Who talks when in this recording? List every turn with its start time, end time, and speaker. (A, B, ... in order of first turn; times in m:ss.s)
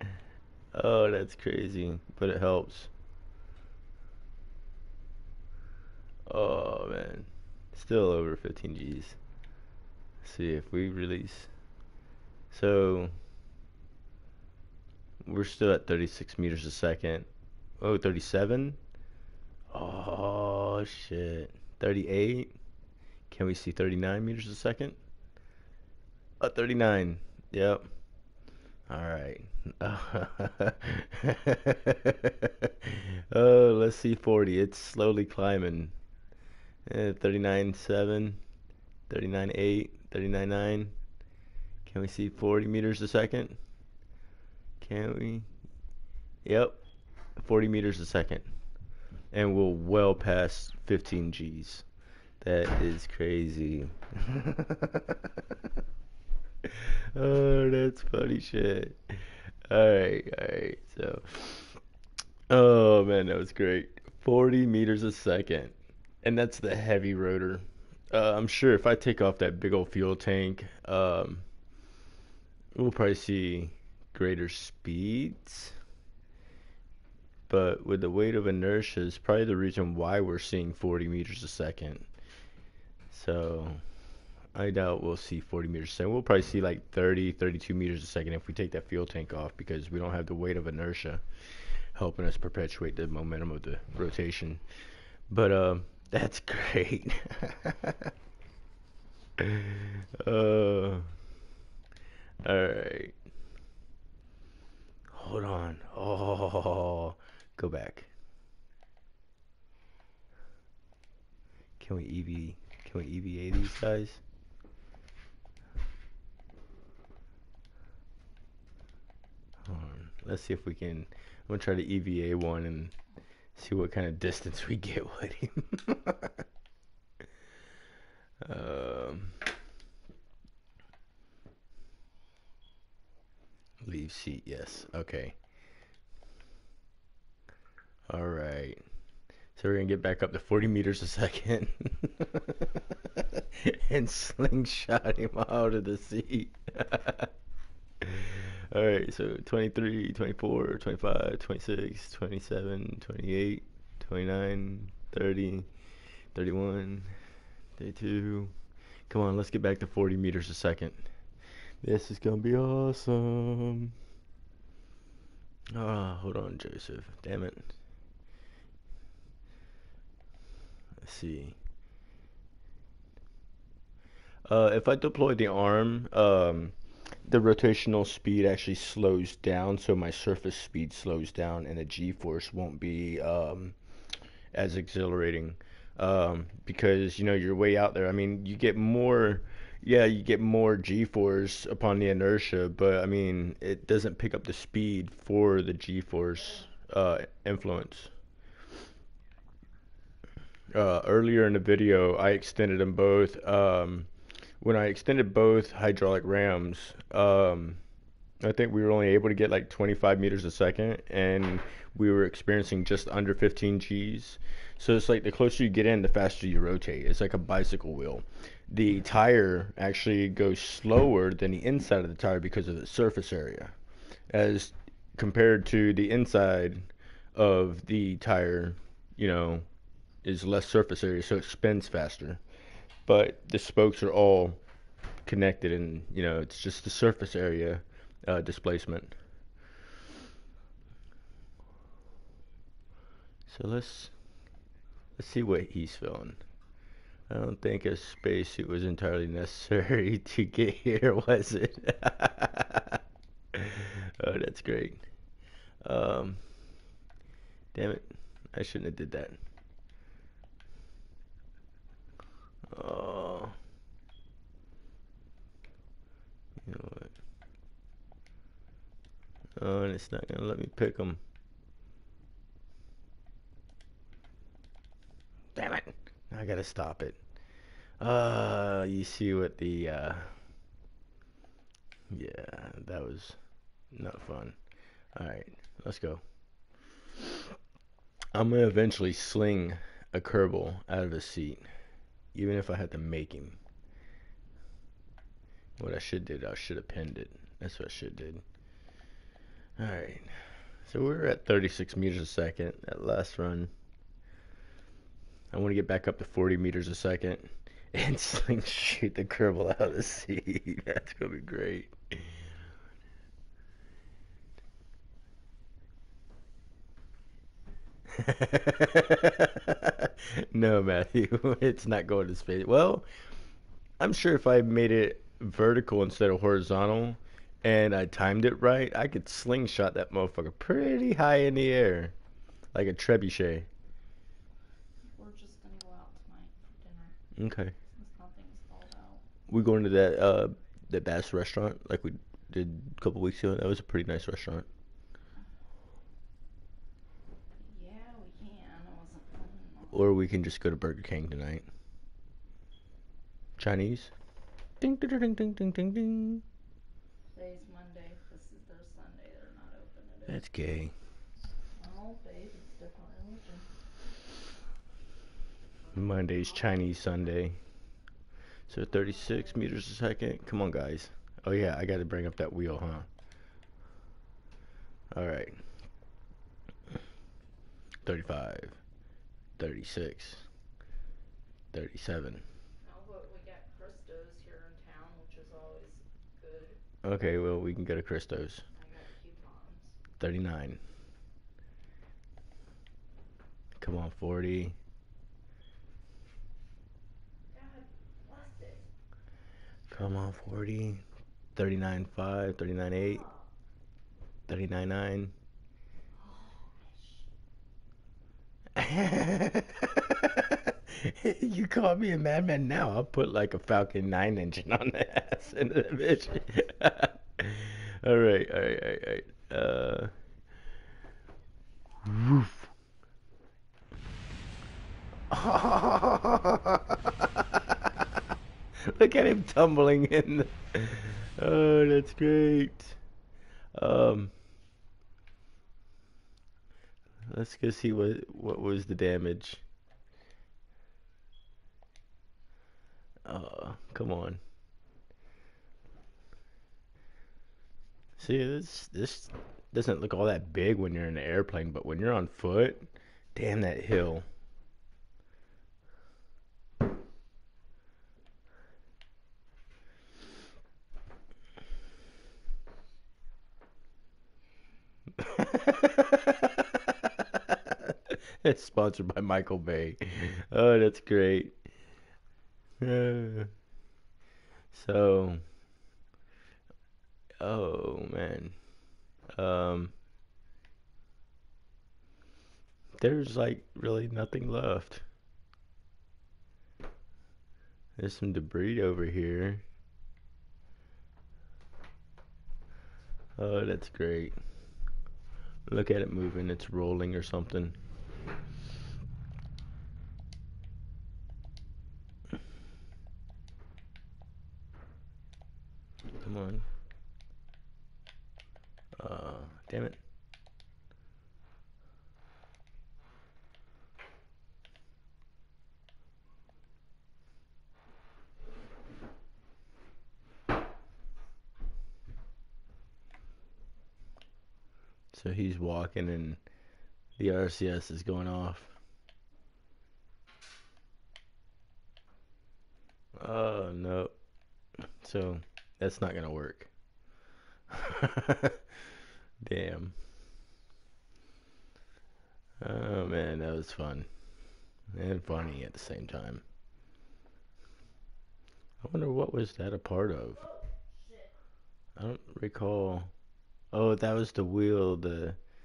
0:00.7-0:02.9 A
0:06.3-0:09.2 A
0:10.2-0:11.5 A
0:12.5-0:13.1 A
0:15.2-0:17.3 A
0:17.8-0:18.8 A
0:19.7-0:22.5 A
0:23.3-0:25.0 A
0:26.4-0:27.9 A
0:28.9-0:35.9 A
0:36.8-0:38.4 A
0:39.1-0:40.9 A
0:41.8-0:43.6 A
0:44.8-0:45.5 A
0:46.4-0:46.8 A
0:47.4-0:48.5 A
0:49.3-0:51.8 A
0:52.4-0:55.6 A
0:56.6-1:01.8 A
1:02.5-1:11.4 A
1:12.8-1:15.8 A
1:17.5-1:22.1 A
1:23.1-1:23.8 A
1:24.5-1:34.6 A
1:35.3-1:38.1 A
1:39.4-1:41.1 A
1:42.4-1:43.2 A
1:45.1-1:48.1 A
1:51.8-1:54.2 A
1:59.7-2:02.9 A
2:03.6-2:06.4 A
2:08.4-2:09.4 A
2:13.8-2:15.4 A
2:18.1-2:18.8 A
2:19.6-2:27.3 A
2:28.0-2:35.7 A
2:36.3-2:37.1 A
2:37.8-2:38.5 A
2:39.1-2:41.0 A
2:41.8-2:44.0 A
2:45.7-2:47.8 A
2:51.0-2:51.6 A
2:54.4-3:03.8 A
3:04.5-3:18.1 A
3:20.7-3:24.1 A
3:24.6-3:27.8 A
3:28.4-3:43.7 A
3:44.3-3:49.7 A
3:50.2-3:52.4 A
3:53.1-3:54.6 A
3:55.2-3:59.1 A
4:03.5-4:04.1 A
4:05.2-4:06.4 A
4:07.3-4:13.0 A
4:13.5-4:15.0 A
4:15.8-4:16.4 A
4:17.7-4:19.4 A
4:22.7-4:23.6 A
4:26.6-4:27.1 A
4:29.6-4:31.2 A
4:35.5-4:37.2 A
4:38.0-4:40.3 A
4:42.1-4:43.4 A
4:43.9-4:44.6 A
4:45.1-4:46.2 A
4:48.3-4:51.7 A
4:52.3-4:53.6 A
4:55.8-4:58.4 A
4:59.8-5:03.7 A
5:05.5-5:12.4 A
5:18.1-5:23.1 A
5:24.0-5:32.1 A
5:32.7-5:33.7 A
5:35.0-5:37.2 B
5:37.4-5:37.7 A
5:37.9-5:39.2 B
5:39.5-5:44.7 A
5:47.6-5:50.1 B
5:49.9-5:51.7 A
5:53.6-5:54.1 A
5:54.8-5:56.4 A
5:57.3-6:00.4 B
6:00.3-6:00.9 A
6:01.8-6:03.7 B
6:05.9-6:06.9 B
6:05.9-6:07.6 A
6:08.7-6:13.1 A
6:15.1-6:15.6 A
6:18.0-6:18.8 A
6:19.6-6:20.4 A
6:21.7-6:22.4 A
6:22.8-6:26.8 B
6:27.0-6:28.6 A
6:28.7-6:30.0 B
6:30.2-6:30.8 A
6:33.8-6:34.8 A
6:37.5-6:38.8 B
6:39.9-6:43.2 A
6:43.0-6:43.4 B
6:44.5-6:45.3 A
6:46.2-6:47.3 B
6:48.8-7:00.1 A
7:02.0-7:02.7 A
7:05.3-7:08.1 A
7:08.8-7:13.0 A
7:13.8-7:14.3 A
7:17.3-7:19.6 A
7:23.2-7:24.4 A
7:28.2-7:34.3 A
7:45.2-7:51.6 A
7:52.8-7:53.5 A
7:54.7-7:55.4 A
7:57.4-7:58.6 A
7:59.3-7:59.9 A
8:03.0-8:05.0 A
8:08.0-8:09.6 A
8:13.4-8:14.4 A
8:15.7-8:17.8 A
8:26.2-8:26.7 A
8:29.0-8:30.0 A
8:45.1-8:46.4 A
8:47.2-8:48.7 A
8:53.2-8:54.1 A
8:55.0-8:56.7 A
8:57.7-8:58.6 A
8:59.4-9:00.0 A
9:02.6-9:04.1 A
9:04.9-9:06.4 A
9:08.8-9:10.5 A
9:10.5-9:11.3 B
9:12.0-9:13.1 A
9:13.7-9:15.4 A